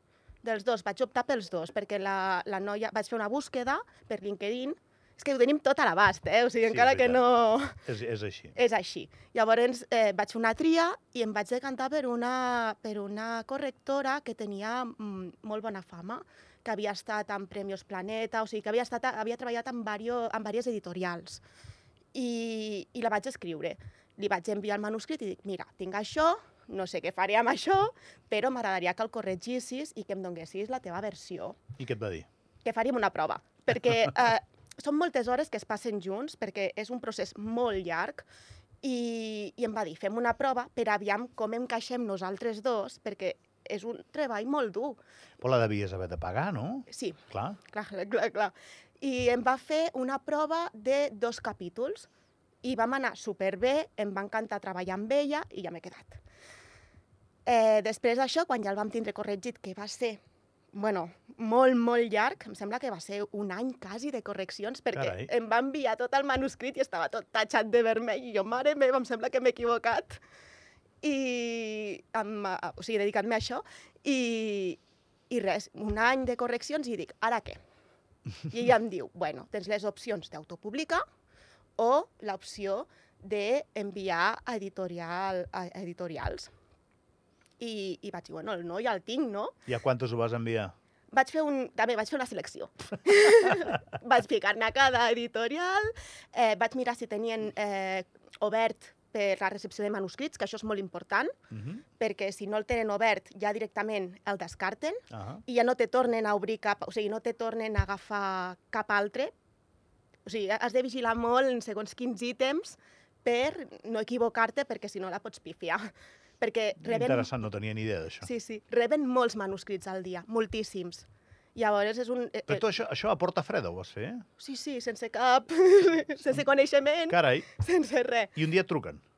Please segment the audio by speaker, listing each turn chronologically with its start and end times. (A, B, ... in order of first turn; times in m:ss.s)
0:00.4-0:07.8 A
0:06.6-0:07.2 B
0:07.8-0:08.5 B
0:08.5-0:21.4 A
0:22.1-0:31.6 A
0:31.8-0:32.3 B
0:32.6-0:38.3 A
0:38.8-0:45.0 A
0:45.4-0:47.6 B
0:46.9-0:52.1 A
0:52.6-0:56.2 A
0:57.4-1:00.2 A
1:00.7-1:10.2 A
1:04.9-1:05.3 B
1:11.0-1:17.6 A
1:18.5-1:21.0 A
1:21.8-1:26.5 A
1:27.6-1:29.5 A
1:29.6-1:30.7 B
1:31.1-1:41.3 A
1:41.5-1:41.8 B
1:42.0-1:49.3 A
1:45.1-1:45.4 B
1:50.2-1:57.3 A
1:56.8-1:58.3 B
1:58.2-2:02.7 A
2:02.5-2:04.2 B
2:04.4-2:08.3 A
2:07.1-2:07.5 B
2:08.4-2:09.0 B